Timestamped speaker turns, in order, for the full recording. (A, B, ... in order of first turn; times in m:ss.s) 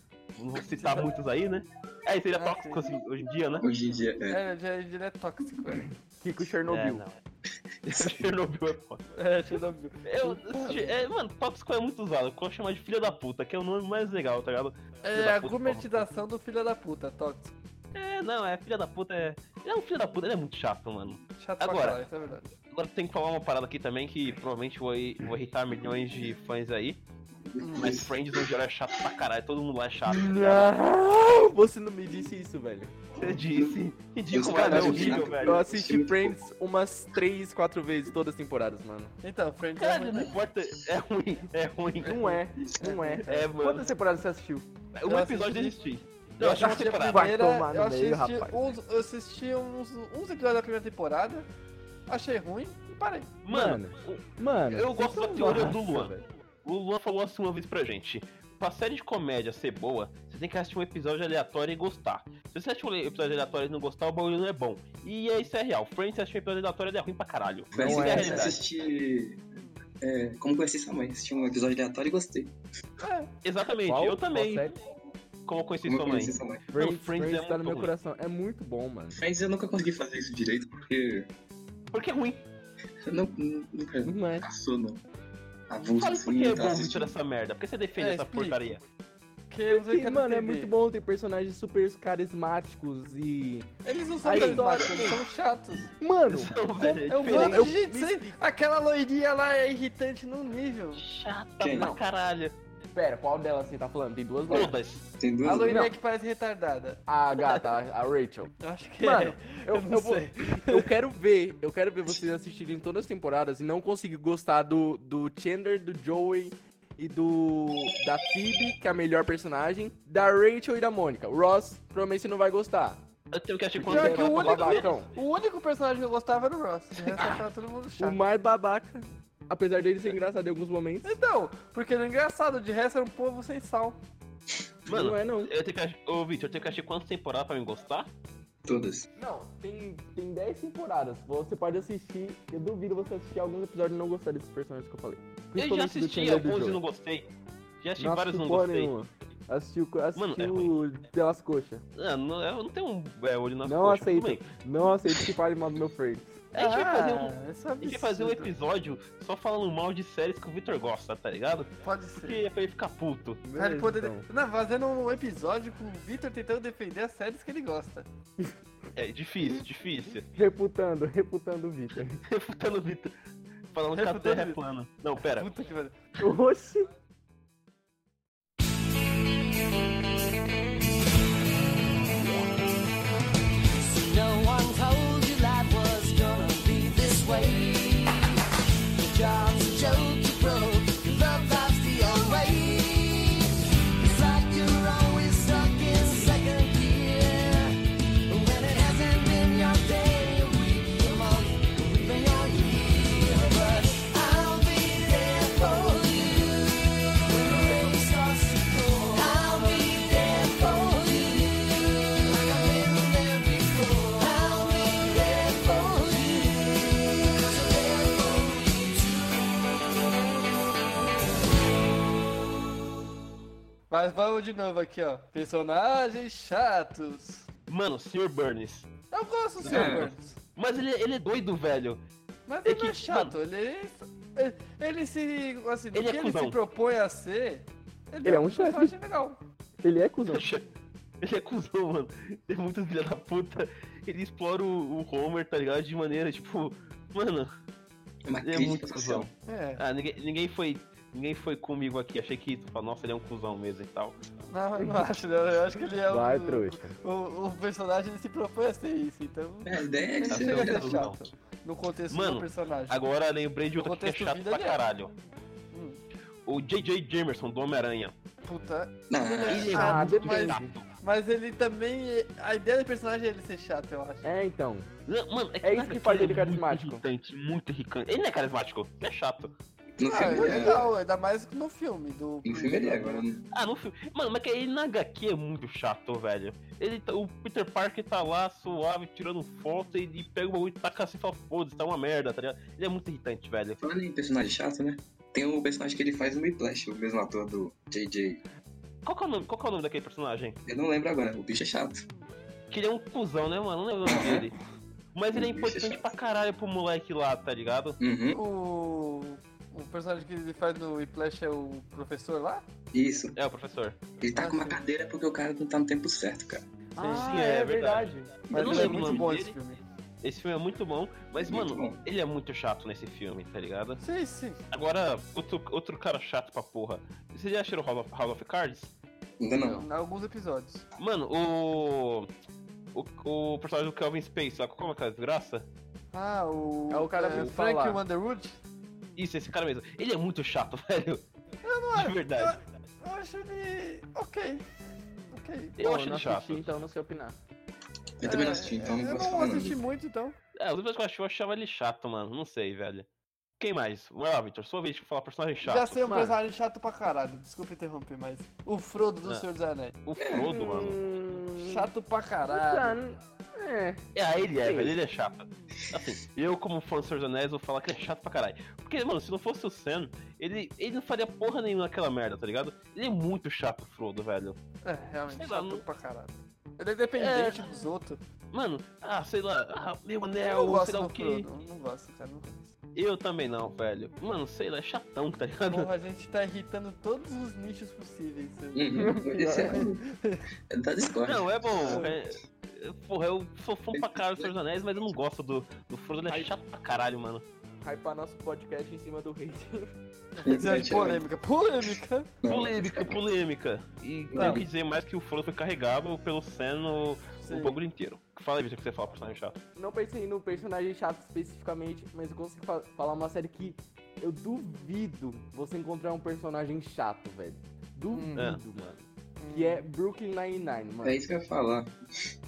0:00.4-0:03.7 A
0:02.3-0:02.8 B
0:03.6-0:04.4 C
0:04.3-0:05.9 B
0:06.2-0:07.0 D
0:06.7-0:07.2 A
0:07.8-0:09.0 A
0:07.9-0:08.2 C
0:09.1-0:11.0 B
0:10.0-0:16.1 A
0:15.0-0:17.5 B
0:17.9-0:22.0 A
0:21.4-0:22.5 B
0:22.7-0:27.0 A
0:27.5-0:28.5 C
0:27.6-0:28.0 B
0:27.8-0:30.7 A
0:30.1-0:32.9 D
0:33.2-0:35.6 A
0:33.2-0:36.4 C
0:34.5-0:39.1 D
0:39.2-0:40.3 B
0:39.8-0:42.4 A
0:42.0-0:44.6 D
0:42.8-0:43.5 B
0:43.2-0:43.9 A
0:44.9-0:47.3 A
0:45.1-0:45.8 B
0:46.4-0:51.5 B
0:46.6-0:48.8 D
0:52.1-0:53.4 B
0:53.4-1:08.6 A
0:53.5-0:56.2 D
1:07.7-1:09.4 C
1:07.8-1:08.5 D
1:10.0-1:12.5 C
1:13.0-1:13.3 B
1:13.4-1:14.7 A
1:13.9-1:14.8 D
1:15.4-1:17.9 A
1:15.8-1:16.6 C
1:16.7-1:19.2 D
1:19.1-1:21.3 C
1:21.9-1:22.4 A
1:23.0-1:25.0 C
1:24.0-1:24.4 D
1:25.7-1:27.2 C
1:25.9-1:28.8 A
1:28.0-1:28.6 B
1:29.5-1:30.7 B
1:29.7-1:33.7 D
1:33.8-1:35.9 B
1:34.2-1:35.2 D
1:34.3-1:34.7 A
1:36.0-1:38.4 D
1:36.3-1:37.7 A
1:37.1-1:41.0 B
1:41.0-1:42.5 A
1:41.6-1:42.0 C
1:41.8-1:42.0 D
1:43.0-1:44.7 D
1:44.5-1:45.8 C
1:44.5-1:45.0 A
1:45.4-1:47.0 B
1:45.7-1:45.9 D
1:47.1-2:03.0 D
1:48.6-1:50.9 B
2:03.3-2:04.9 A
2:03.8-2:05.1 D
2:03.8-2:08.2 B
2:08.0-2:11.1 D
2:11.0-2:14.0 B
2:14.9-2:15.5 D
2:14.9-2:18.1 A
2:18.6-2:19.1 C
2:19.2-2:26.8 D
2:25.6-2:27.3 A
2:27.8-2:28.9 A
2:28.0-2:31.8 D
2:30.2-2:30.7 A
2:32.0-2:34.5 A
2:33.6-2:36.3 D
2:36.5-2:41.7 A
2:36.6-2:38.5 B
2:41.8-2:42.4 B
2:42.2-2:43.4 A
2:43.4-2:44.2 D
2:43.5-2:48.1 B
2:49.0-2:50.3 A
2:50.3-2:52.2 D
2:52.3-2:53.1 A
2:53.7-2:55.5 A
2:54.0-2:54.6 B
2:55.2-2:56.0 B
2:56.2-2:56.9 D
3:03.8-3:08.4 E
3:09.0-3:26.7 E
3:27.2-3:39.6 E
3:43.9-3:47.5 B
3:47.7-3:48.9 A
3:49.1-3:50.4 B
3:49.6-3:52.0 A
3:49.6-3:50.1 C
3:52.5-3:59.4 B
3:52.6-3:53.3 A
3:55.9-3:56.6 A
3:58.2-3:58.9 D
3:59.8-4:00.5 D
4:00.3-4:00.6 A
4:01.2-4:07.5 A
4:08.2-4:09.3 C
4:08.4-4:14.2 A
4:09.5-4:09.8 B
4:14.5-4:23.0 B
4:16.1-4:17.0 D
4:19.6-4:21.1 C
4:20.3-4:21.2 A
4:22.1-4:25.1 A
4:23.8-4:24.8 B
4:25.7-4:26.0 B
4:26.5-4:28.1 A
4:28.4-4:34.3 B
4:29.1-4:29.7 C
4:29.5-4:30.8 A
4:29.7-4:30.7 D
4:34.2-4:34.9 D
4:35.1-4:39.5 A
4:35.6-4:37.0 D
4:40.0-4:40.9 C
4:40.0-4:43.2 B
4:40.4-4:40.8 A
4:42.4-4:43.4 C
4:43.5-4:53.8 A
4:53.8-4:58.4 C
4:59.0-5:00.6 A
5:00.6-5:02.0 C
5:02.7-5:04.6 A
5:04.0-5:04.5 C
5:05.1-5:08.0 A
5:05.3-5:06.1 C
5:08.0-5:08.4 C
5:08.3-5:12.6 B
5:12.9-5:13.3 C
5:13.4-5:14.0 A
5:14.2-5:16.6 C
5:14.4-5:14.8 B
5:17.0-5:18.7 D
5:17.0-5:17.3 B
5:17.0-5:19.6 A
5:18.5-5:19.2 C
5:18.5-5:19.8 B
5:20.2-5:24.0 A
5:21.4-5:22.0 C
5:24.0-5:24.6 B
5:24.7-5:28.9 A
5:29.4-5:29.9 C
5:29.6-5:30.8 B
5:31.0-5:32.3 A
5:32.9-5:35.7 A
5:36.1-5:38.6 B
5:36.9-5:38.0 D
5:39.2-5:41.2 A
5:41.6-5:44.6 B
5:41.9-5:42.5 A
5:45.3-5:45.8 B
5:45.8-5:46.7 A
5:45.8-5:47.4 D
5:48.2-5:49.8 C
5:48.2-5:50.4 B
5:50.6-5:53.0 A
5:53.6-5:56.0 A
5:55.6-6:00.0 B
5:56.1-5:56.4 D
6:00.0-6:01.0 A
6:00.2-6:00.5 C
6:00.4-6:01.9 D
6:01.6-6:03.0 B
6:02.5-6:04.0 D
6:04.1-6:14.6 A
6:04.5-6:04.9 D
6:14.8-6:18.2 B
6:15.3-6:15.8 A
6:17.2-6:17.6 A
6:18.5-6:21.5 A
6:20.4-6:22.7 B
6:23.0-6:25.9 A
6:25.7-6:29.0 B
6:28.7-6:30.0 C
6:29.0-6:29.8 D
6:29.7-6:30.4 B
6:30.7-6:32.1 C
6:31.2-6:37.4 A
6:31.8-6:32.1 B
6:33.9-6:35.1 C
6:37.8-6:39.9 D
6:40.3-6:42.3 B
6:40.4-6:41.2 C
6:42.4-6:43.2 C
6:42.5-6:49.6 A
6:44.3-6:44.6 C
6:44.4-6:44.6 B
6:47.4-6:47.8 B
6:49.8-7:01.2 D
6:58.1-6:58.5 B
6:59.4-6:59.8 B
7:01.0-7:02.3 C